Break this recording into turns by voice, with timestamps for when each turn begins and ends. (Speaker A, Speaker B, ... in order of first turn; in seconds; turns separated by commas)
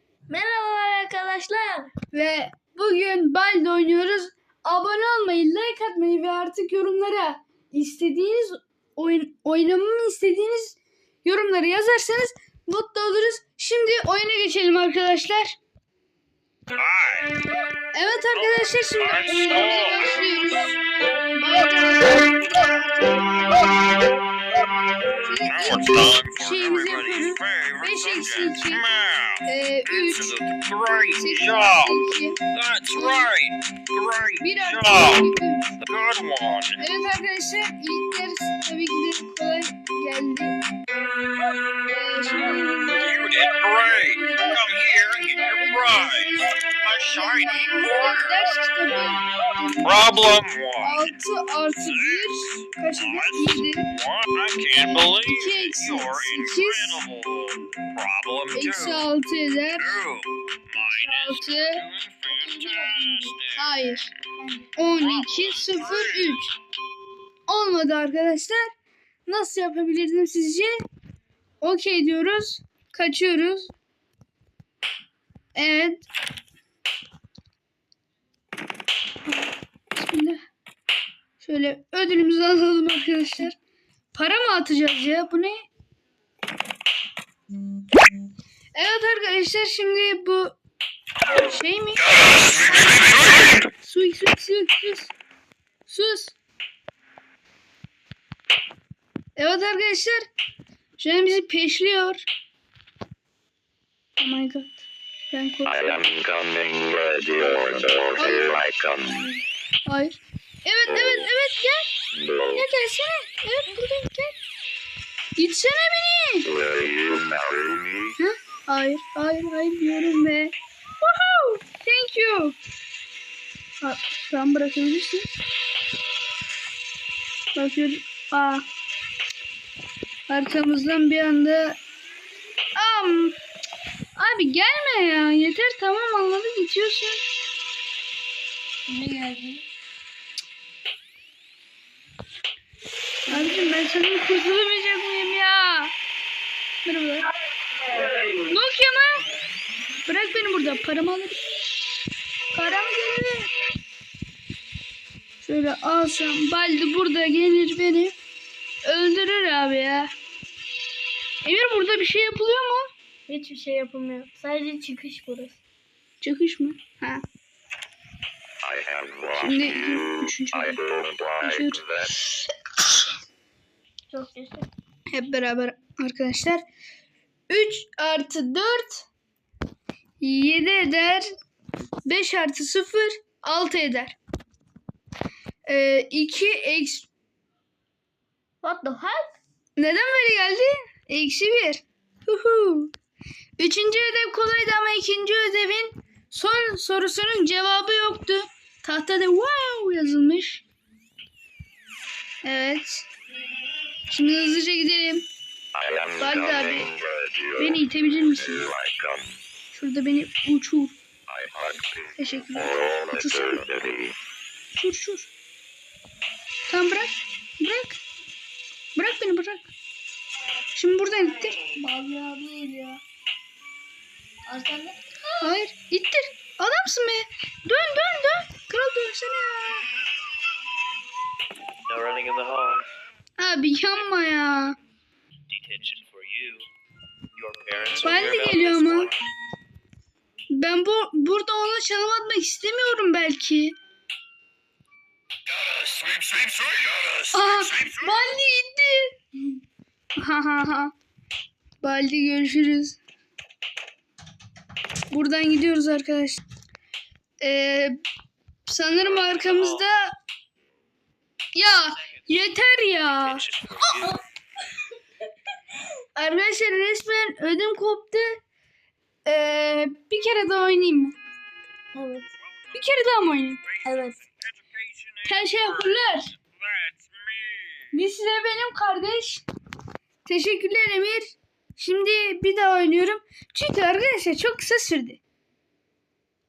Speaker A: 0.3-1.9, Speaker B: 2.1-15.6, Speaker C: 16.8-17.3, Speaker B: 17.9-20.8, Speaker C: 18.3-20.1, Speaker B: 21.4-23.8, Speaker B: 25.2-28.8, Speaker C: 25.5-36.8, Speaker B: 29.4-30.4, Speaker B: 31.2-32.4, Speaker B: 32.9-33.3, Speaker B: 34.4-35.7, Speaker B: 36.8-40.5, Speaker B: 41.9-43.2, Speaker C: 43.0-48.3, Speaker B: 44.2-53.9, Speaker C: 49.8-51.2, Speaker C: 51.8-59.0, Speaker B: 54.8-57.0, Speaker B: 58.5-60.0, Speaker C: 59.8-64.0, Speaker B: 60.8-66.5, Speaker C: 64.9-66.4, Speaker B: 67.5-68.7, Speaker B: 69.3-70.8, Speaker B: 71.6-73.7, Speaker B: 75.5-76.1, Speaker B: 79.3-80.4, Speaker B: 81.4-83.6, Speaker B: 84.1-85.6, Speaker B: 88.7-90.5, Speaker B: 91.3-92.8, Speaker B: 93.8-95.1, Speaker B: 95.9-96.3, Speaker B: 99.4-100.2, Speaker B: 101.0-102.3, Speaker B: 104.2-106.0, Speaker D: 105.6-109.3, Speaker B: 108.2-108.6, Speaker B: 109.9-111.9, Speaker D: 110.9-111.2, Speaker D: 112.1-112.7, Speaker B: 112.5-114.3, Speaker B: 115.3-116.5, Speaker D: 116.4-118.2, Speaker B: 118.2-122.5, Speaker B: 123.8-125.3, Speaker B: 127.5-128.6, Speaker B: 130.3-131.8, Speaker B: 132.7-133.3, Speaker B: 134.2-137.2, Speaker A: 138.9-139.6, Speaker B: 143.3-145.9, Speaker A: 143.3-143.6, Speaker B: 146.8-147.3, Speaker B: 148.4-149.2, Speaker B: 150.1-151.4, Speaker B: 152.5-153.5, Speaker B: 155.4-158.1, Speaker B: 158.8-160.1, Speaker B: 161.4-162.9, Speaker A: 163.3-165.6, Speaker B: 166.2-167.2, Speaker D: 168.6-172.2, Speaker B: 169.3-170.8, Speaker B: 171.4-171.8, Speaker A: 174.1-174.7, Speaker B: 175.1-176.6, Speaker B: 177.5-179.1, Speaker B: 180.2-181.3, Speaker B: 182.1-184.2, Speaker B: 185.7-187.1, Speaker A: 188.6-189.4, Speaker B: 189.8-192.9, Speaker B: 193.6-200.6, Speaker B: 202.4-203.1, Speaker B: 204.1-205.2, Speaker D: 205.7-209.4, Speaker B: 206.2-206.9, Speaker B: 207.6-208.7, Speaker B: 209.7-210.9, Speaker D: 211.3-214.1, Speaker B: 212.2-213.6, Speaker B: 214.7-215.3, Speaker B: 216.7-218.0, Speaker B: 218.9-219.7, Speaker B: 220.7-221.7, Speaker A: 221.6-223.0, Speaker A: 224.5-225.5, Speaker B: 225.4-229.9, Speaker E: 231.8-232.9, Speaker B: 233.4-234.8, Speaker E: 235.5-236.7, Speaker E: 237.3-239.1, Speaker B: 238.0-239.1, Speaker B: 240.5-243.8, Speaker C: 245.6-247.2, Speaker B: 247.3-249.2, Speaker B: 250.2-250.9, Speaker B: 251.8-253.0, Speaker B: 255.1-256.4, Speaker B: 257.4-258.0, Speaker B: 258.7-260.1, Speaker E: 259.1-259.9, Speaker B: 261.5-264.1, Speaker E: 263.2-264.2, Speaker B: 266.1-268.4, Speaker B: 269.2-271.2, Speaker A: 271.9-272.3, Speaker C: 272.4-277.9, Speaker B: 272.7-273.6, Speaker A: 273.8-274.2, Speaker B: 275.2-276.3, Speaker B: 277.9-279.4, Speaker B: 280.2-285.2